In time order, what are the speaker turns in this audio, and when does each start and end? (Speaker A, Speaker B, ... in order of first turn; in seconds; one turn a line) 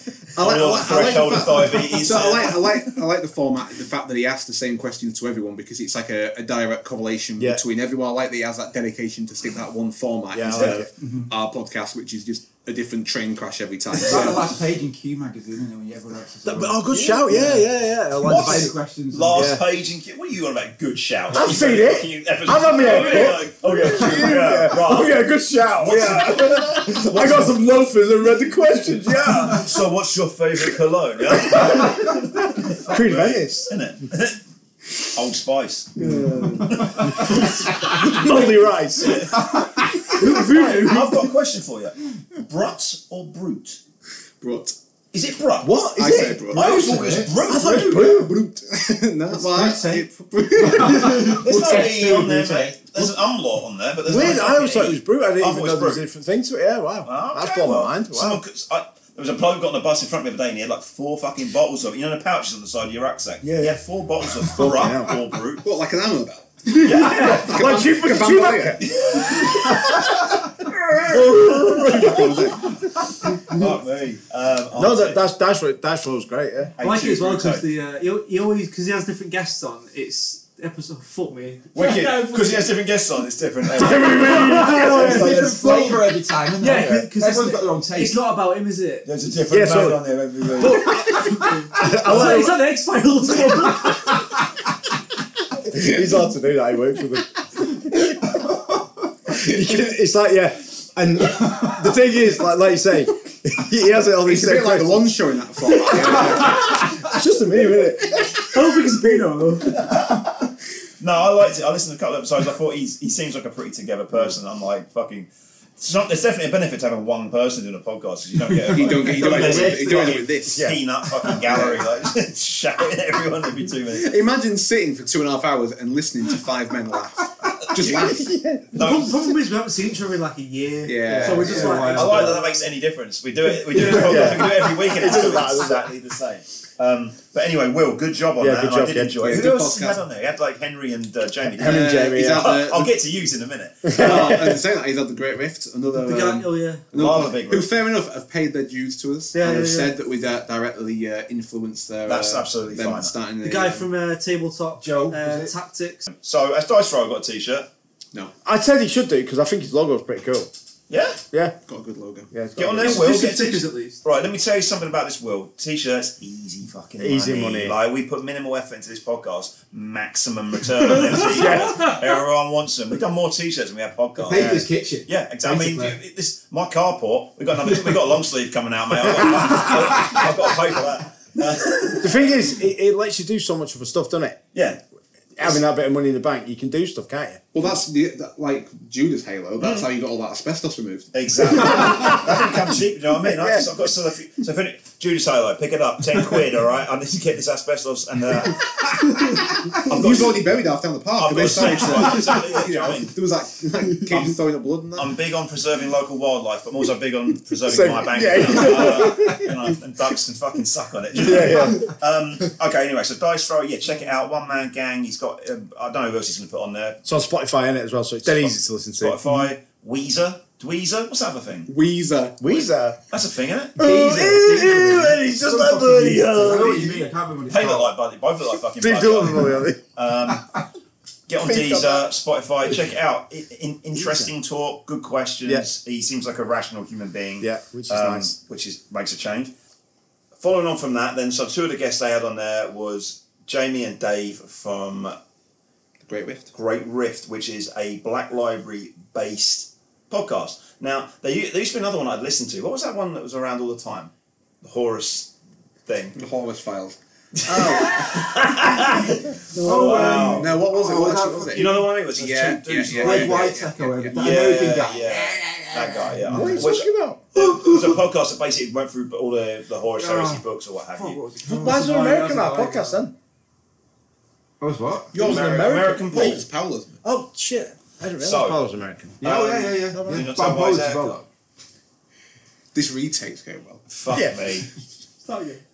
Speaker A: 0.3-14.5
Speaker B: 0.4-2.9
Speaker C: 10.3-10.9
Speaker D: 11.0-11.3
Speaker D: 14.0-19.5
Speaker C: 16.4-18.7
Speaker B: 18.2-27.6
Speaker C: 19.3-19.6
Speaker C: 21.3-29.7
Speaker B: 29.2-34.4
Speaker C: 32.9-33.7
Speaker B: 35.0-36.2
Speaker C: 36.0-41.0
Speaker B: 36.7-43.8
Speaker E: 40.2-41.1
Speaker A: 44.4-44.8
Speaker B: 45.1-48.2
Speaker C: 45.6-48.4
Speaker A: 45.9-46.9
Speaker D: 46.8-47.3
Speaker A: 47.5-52.4
Speaker D: 50.6-51.3
Speaker E: 51.0-51.7
Speaker B: 51.2-56.0
Speaker C: 54.0-58.4
Speaker B: 57.0-65.7
Speaker C: 63.4-63.8
Speaker C: 64.4-65.2
Speaker A: 65.6-69.0
Speaker C: 66.8-70.1
Speaker B: 66.8-67.5
Speaker B: 68.8-70.2
Speaker C: 70.7-72.3
Speaker B: 71.1-72.3
Speaker A: 71.1-72.8
Speaker B: 73.4-75.2
Speaker C: 74.8-76.7
Speaker B: 76.8-77.7
Speaker E: 76.8-82.7
Speaker B: 81.7-85.7
Speaker C: 83.8-85.6
Speaker E: 83.8-86.0
Speaker D: 84.7-88.3
Speaker E: 86.6-89.1
Speaker B: 89.0-91.0
Speaker C: 89.5-90.0
Speaker E: 90.6-94.2
Speaker C: 91.7-92.7
Speaker C: 95.7-98.3
Speaker C: 99.3-105.2
Speaker A: 104.2-106.8
Speaker E: 105.9-106.7
Speaker C: 106.1-108.4
Speaker E: 108.2-109.9
Speaker B: 109.8-110.2
Speaker B: 111.0-124.1
Speaker A: 118.6-120.7
Speaker D: 118.9-119.5
Speaker C: 119.2-120.8
Speaker A: 123.9-128.3
Speaker B: 127.7-128.2
Speaker C: 127.9-128.7
Speaker B: 128.7-129.3
Speaker E: 128.8-132.7
Speaker A: 130.8-132.4
Speaker C: 131.1-131.7
Speaker D: 131.2-132.2
Speaker B: 131.8-144.5
Speaker E: 133.7-134.4
Speaker C: 133.7-135.8
Speaker C: 138.4-139.4
Speaker A: 139.2-140.0
Speaker C: 141.6-142.6
Speaker A: 141.6-142.9
Speaker C: 143.8-144.6
Speaker A: 143.9-153.9
Speaker E: 145.9-146.9
Speaker B: 146.9-147.7
Speaker E: 149.3-150.0
Speaker B: 152.1-153.2
Speaker E: 153.4-156.1
Speaker D: 154.8-155.5
Speaker B: 156.1-157.7
Speaker C: 158.4-160.5
Speaker B: 160.9-161.2
Speaker A: 161.7-162.3
Speaker C: 162.3-163.1
Speaker B: 162.6-182.5
Speaker E: 162.8-164.0
Speaker C: 167.0-167.8
Speaker E: 170.9-171.9
Speaker C: 171.3-171.9
Speaker D: 174.2-176.0
Speaker C: 174.3-174.7
Speaker C: 182.0-184.4
Speaker B: 184.5-184.8
Speaker C: 185.4-187.4
Speaker A: 187.5-192.0
Speaker B: 189.6-189.9
Speaker B: 191.1-198.9
Speaker C: 191.8-192.4
Speaker C: 193.3-193.7
Speaker A: 199.3-205.1
Speaker B: 199.8-200.5
Speaker B: 201.2-203.2
Speaker B: 204.9-217.0
Speaker C: 207.6-209.5
Speaker C: 211.2-211.9
Speaker C: 217.1-219.2
Speaker B: 218.2-221.7
Speaker A: 221.7-222.4
Speaker C: 222.4-223.0
Speaker B: 223.1-225.0
Speaker C: 223.8-226.8
Speaker D: 223.8-227.9
Speaker B: 225.8-226.9
Speaker E: 226.4-227.1
Speaker B: 227.5-230.6
Speaker C: 228.8-229.8
Speaker B: 231.3-239.5
Speaker C: 231.4-232.1
Speaker C: 237.4-238.3
Speaker B: 240.4-245.2
Speaker A: 246.1-246.5
Speaker B: 246.5-254.1
Speaker B: 254.6-255.3
Speaker B: 255.9-256.2
Speaker A: 256.1-258.4
Speaker B: 257.4-260.5
Speaker D: 259.6-261.7
Speaker C: 259.6-260.3
Speaker E: 259.7-260.2
Speaker A: 259.7-264.3
Speaker B: 261.5-271.2
Speaker D: 262.9-265.2
Speaker D: 266.2-266.7
Speaker C: 266.3-267.2
Speaker D: 271.3-271.9
Speaker C: 271.4-273.1
Speaker E: 271.5-273.0
Speaker D: 274.6-275.2
Speaker A: 275.1-277.0
Speaker B: 275.2-276.4
Speaker C: 275.2-276.4
Speaker C: 277.0-279.2
Speaker B: 278.2-278.6
Speaker B: 279.2-281.2
Speaker D: 279.2-281.2
Speaker C: 279.9-280.2
Speaker A: 282.7-283.8
Speaker B: 283.9-284.7
Speaker C: 284.1-284.4
Speaker E: 285.2-285.6